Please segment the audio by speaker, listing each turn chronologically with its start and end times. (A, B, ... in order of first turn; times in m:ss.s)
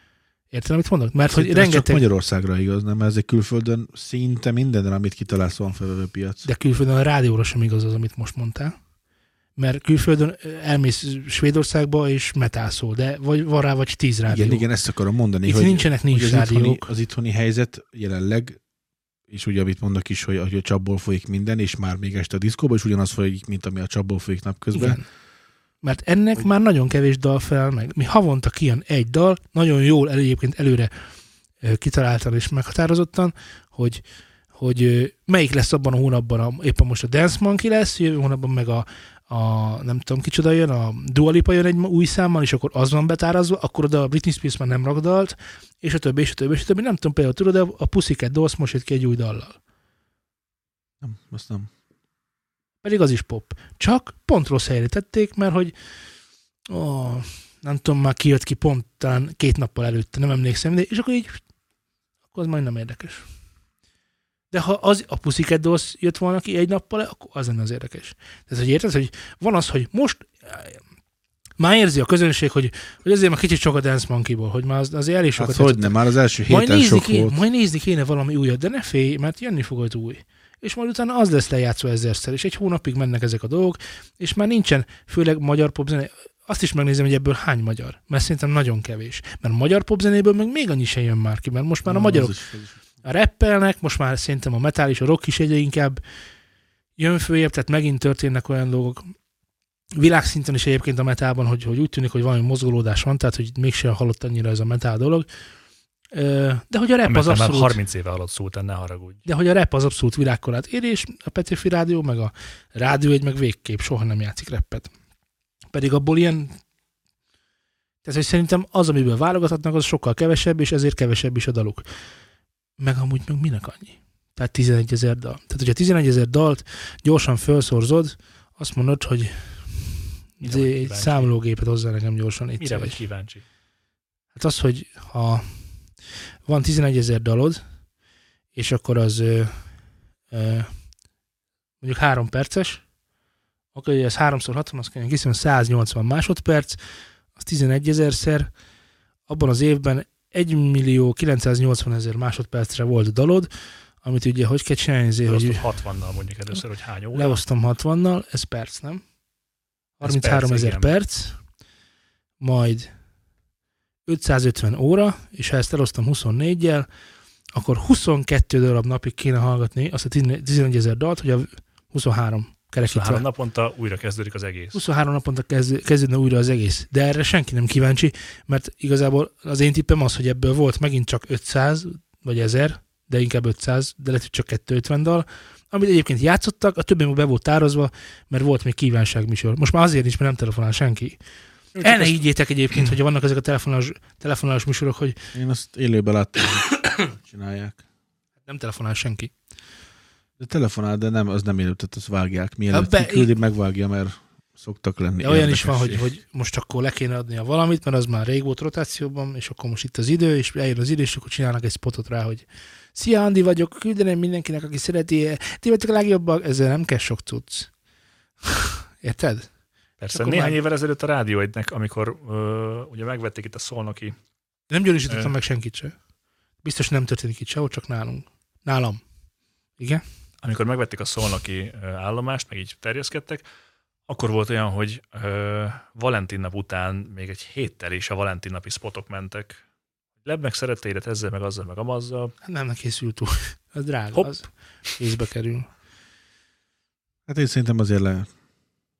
0:00.5-0:02.0 A
0:01.3-0:06.5 B
0:06.4-0:08.8 A
0:09.6-0:14.6 A
0:14.3-0:18.6 B
0:15.4-0:16.9 A
0:19.3-0:25.0 B
0:24.7-0:25.0 A
0:25.8-0:30.9 A
0:31.6-0:34.0 A
0:34.5-0:49.6 A
0:51.0-0:51.7 B
0:52.8-0:55.7 A
0:56.7-1:01.4 A
1:02.3-1:03.3 A
1:04.5-1:10.8 A
1:11.6-1:16.0 A
1:15.4-1:17.4 B
1:16.5-1:32.3 A
1:31.8-1:32.8 B
1:33.0-1:36.0 A
1:37.0-1:39.1 A
1:40.0-1:45.3 A
1:46.1-1:47.8 A
1:47.0-1:49.2 C
1:49.2-1:54.9 A
1:55.7-1:56.6 A
1:58.0-2:01.8 A
2:02.8-2:13.0 A
2:10.4-2:11.3 C
2:12.6-2:13.4 C
2:14.3-2:15.6 A
2:16.5-2:17.6 A
2:18.5-2:19.6 A
2:20.3-2:20.7 A
2:21.8-2:22.8 A
2:23.7-2:26.8 A
2:27.4-2:28.5 A
2:29.3-2:33.5 A
2:34.0-2:35.7 A
2:35.3-2:37.4 C
2:37.1-2:39.0 A
2:40.0-2:41.4 A
2:40.0-2:40.9 C
2:42.4-2:42.9 A
2:44.0-2:46.9 A
2:47.5-2:53.2 A
2:52.8-2:54.8 C
2:54.7-3:11.2 A
3:11.7-3:12.2 C
3:11.8-3:15.2 A
3:15.3-3:17.8 B
3:18.4-3:19.3 A
3:20.4-3:26.1 B
3:22.7-3:23.3 A
3:25.2-3:37.7 A
3:38.5-3:39.5 A
3:40.0-3:44.1 C
3:40.1-3:40.6 A
3:44.7-3:46.0 A
3:45.1-3:45.3 C
3:46.6-3:49.0 A
3:49.8-3:50.0 A
3:50.4-3:53.4 C
3:54.1-3:59.6 C
4:00.2-4:02.3 C
4:02.4-4:05.7 A
4:07.3-4:08.3 B